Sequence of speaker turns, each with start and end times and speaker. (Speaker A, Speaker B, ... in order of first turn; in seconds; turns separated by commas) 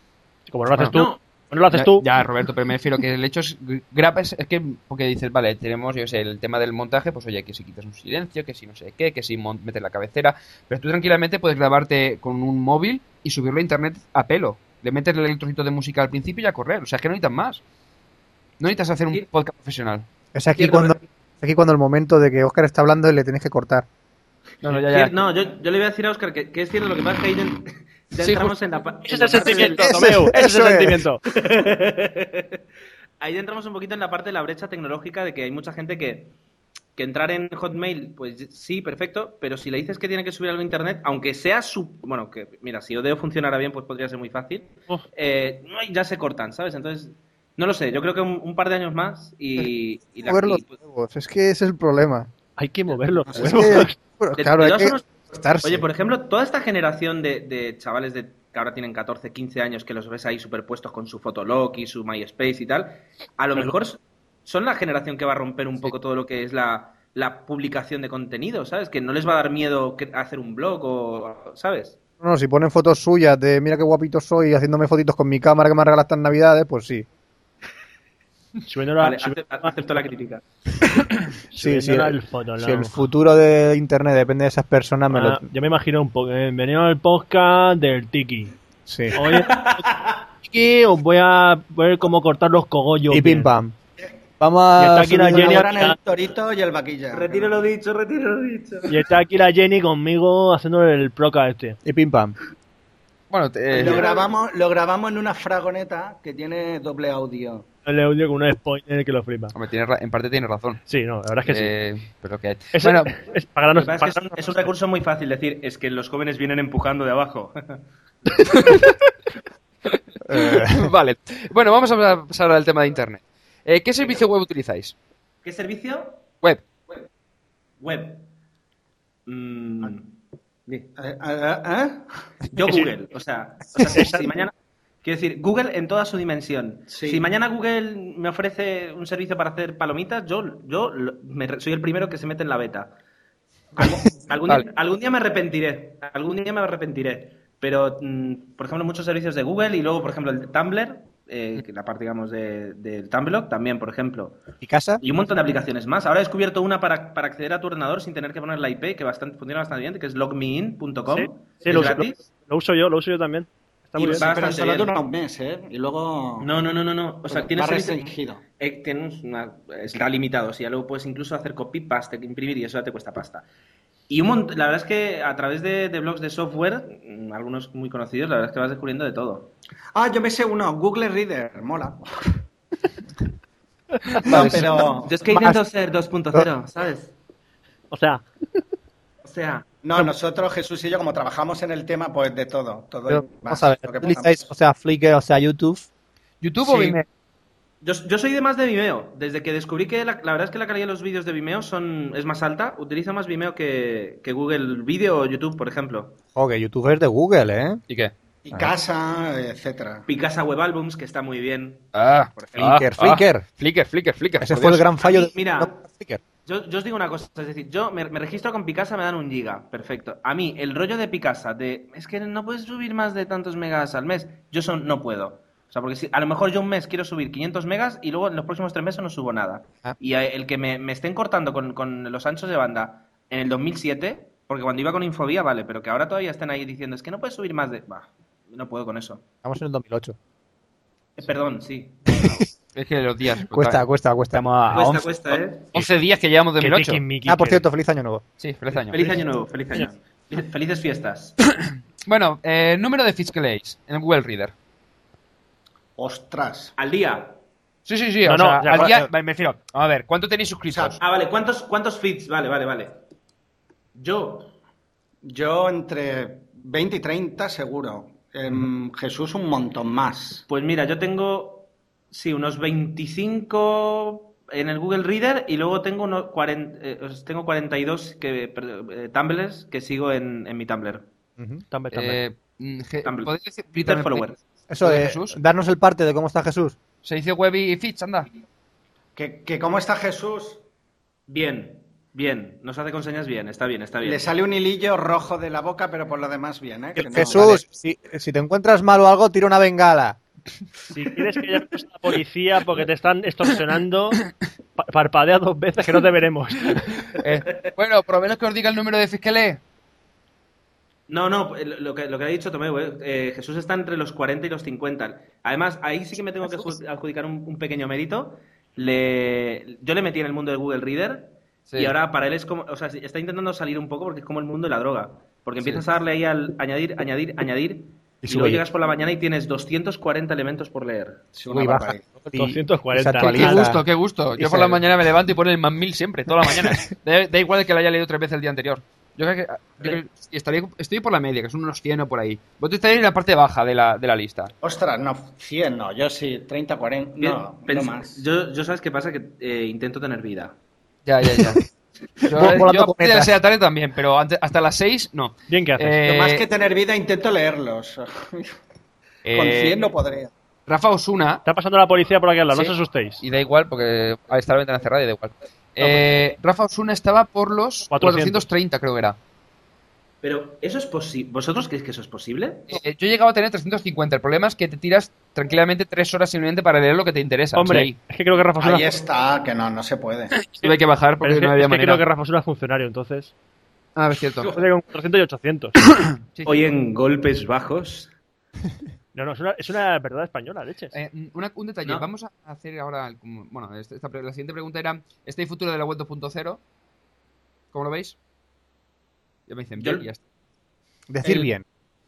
Speaker A: 0.5-2.0, Speaker B: 0.9-1.2, Speaker C: 1.7-17.6, Speaker C: 18.6-20.9, Speaker D: 20.3-23.9, Speaker C: 24.6-25.1, Speaker B: 24.7-30.1, Speaker C: 28.2-28.5, Speaker A: 29.1-31.2, Speaker D: 29.7-31.0, Speaker B: 31.3-32.6, Speaker B: 33.2-36.3, Speaker B: 37.0-50.7, Speaker D: 50.2-52.3, Speaker A: 52.6-54.0, Speaker D: 53.3-55.9, Speaker B: 54.4-72.0, Speaker D: 72.2-77.1, Speaker A: 78.7-79.8, Speaker B: 79.0-80.4, Speaker A: 81.5-83.0, Speaker D: 81.5-85.4, Speaker A: 85.1-88.5, Speaker D: 88.9-89.2, Speaker A: 89.1-89.9, Speaker B: 89.2-90.2, Speaker A: 90.4-93.5, Speaker D: 93.1-93.8, Speaker D: 94.4-95.7, Speaker A: 94.8-96.0, Speaker E: 95.3-97.5, Speaker B: 97.1-98.9, Speaker A: 98.9-101.8, Speaker D: 101.8-102.4, Speaker C: 103.3-104.1, Speaker E: 103.7-107.7, Speaker B: 103.8-104.2, Speaker A: 107.9-109.5, Speaker C: 109.5-110.8, Speaker A: 110.9-111.7, Speaker C: 111.5-113.1, Speaker A: 112.7-114.6, Speaker B: 113.7-117.8, Speaker C: 118.5-118.8, Speaker D: 120.3-120.9, Speaker C: 120.6-125.0, Speaker B: 125.4-126.2, Speaker B: 127.8-128.3, Speaker B: 129.3-130.1, Speaker E: 131.0-132.1, Speaker B: 132.5-134.5, Speaker B: 135.0-142.9, Speaker E: 136.9-137.2, Speaker B: 143.8-154.4, Speaker D: 154.6-155.0, Speaker B: 155.0-162.2, Speaker A: 161.1-164.2, Speaker E: 164.0-166.5, Speaker B: 164.0-165.0, Speaker B: 166.4-173.5, Speaker E: 167.3-168.4, Speaker B: 174.1-179.5, Speaker E: 179.9-182.0, Speaker E: 184.2-185.1, Speaker C: 184.3-184.7, Speaker B: 185.1-187.1, Speaker D: 185.3-185.6, Speaker A: 187.9-188.3, Speaker B: 189.2-189.7, Speaker E: 189.8-194.5, Speaker D: 193.1-195.9, Speaker C: 196.4-197.1, Speaker B: 196.6-196.9, Speaker B: 197.8-206.2, Speaker D: 206.3-207.8, Speaker E: 208.4-210.1, Speaker B: 210.1-212.6, Speaker C: 211.9-214.8, Speaker D: 212.6-213.5, Speaker D: 214.4-216.2, Speaker B: 215.0-215.8, Speaker B: 216.5-239.2, Speaker D: 239.4-240.2, Speaker B: 241.2-242.4, Speaker C: 242.7-245.2, Speaker D: 243.5-244.7, Speaker B: 244.7-245.9, Speaker C: 245.7-247.0, Speaker A: 246.6-247.6, Speaker D: 247.3-248.2, Speaker C: 248.4-249.1, Speaker B: 248.9-251.4, Speaker C: 251.5-254.5, Speaker E: 256.0-256.7, Speaker B: 256.8-257.4, Speaker C: 257.9-261.0, Speaker A: 258.2-258.9, Speaker D: 258.8-259.1, Speaker E: 260.7-261.0, Speaker B: 261.0-262.9, Speaker B: 263.9-264.5, Speaker E: 265.2-270.4, Speaker B: 270.5-281.1, Speaker D: 281.4-281.6, Speaker A: 281.7-282.2, Speaker C: 281.9-285.4, Speaker B: 283.0-284.4, Speaker D: 284.7-286.8, Speaker C: 287.0-288.3, Speaker E: 289.2-290.6, Speaker B: 291.3-294.2, Speaker E: 294.0-297.6, Speaker D: 297.0-300.2, Speaker A: 300.9-304.2, Speaker A: 304.8-307.0, Speaker C: 307.2-309.6, Speaker B: 311.1-331.2, Speaker C: 321.7-321.9, Speaker D: 328.2-328.6, Speaker E: 331.3-332.0, Speaker D: 331.5-333.8, Speaker A: 332.3-333.6, Speaker C: 333.2-344.5, Speaker D: 334.4-334.8, Speaker E: 344.6-348.2, Speaker B: 347.2-350.6, Speaker C: 351.1-351.6, Speaker C: 352.2-356.4, Speaker D: 352.3-353.4, Speaker A: 355.5-356.0, Speaker E: 356.0-358.5, Speaker C: 359.2-359.8, Speaker E: 359.3-360.3, Speaker C: 360.7-361.4, Speaker A: 361.4-363.2, Speaker C: 362.5-369.2, Speaker A: 367.9-368.5, Speaker B: 370.2-372.7, Speaker C: 372.7-378.0, Speaker A: 377.6-378.9, Speaker E: 378.6-380.3, Speaker C: 380.4-382.0, Speaker A: 380.6-383.3, Speaker C: 384.0-384.6, Speaker A: 384.4-385.8, Speaker C: 386.3-386.6, Speaker B: 386.4-388.1, Speaker A: 389.1-390.9, Speaker C: 390.9-396.6, Speaker C: 397.7-398.2, Speaker C: 399.5-400.2, Speaker B: 399.8-400.1, Speaker D: 401.1-401.6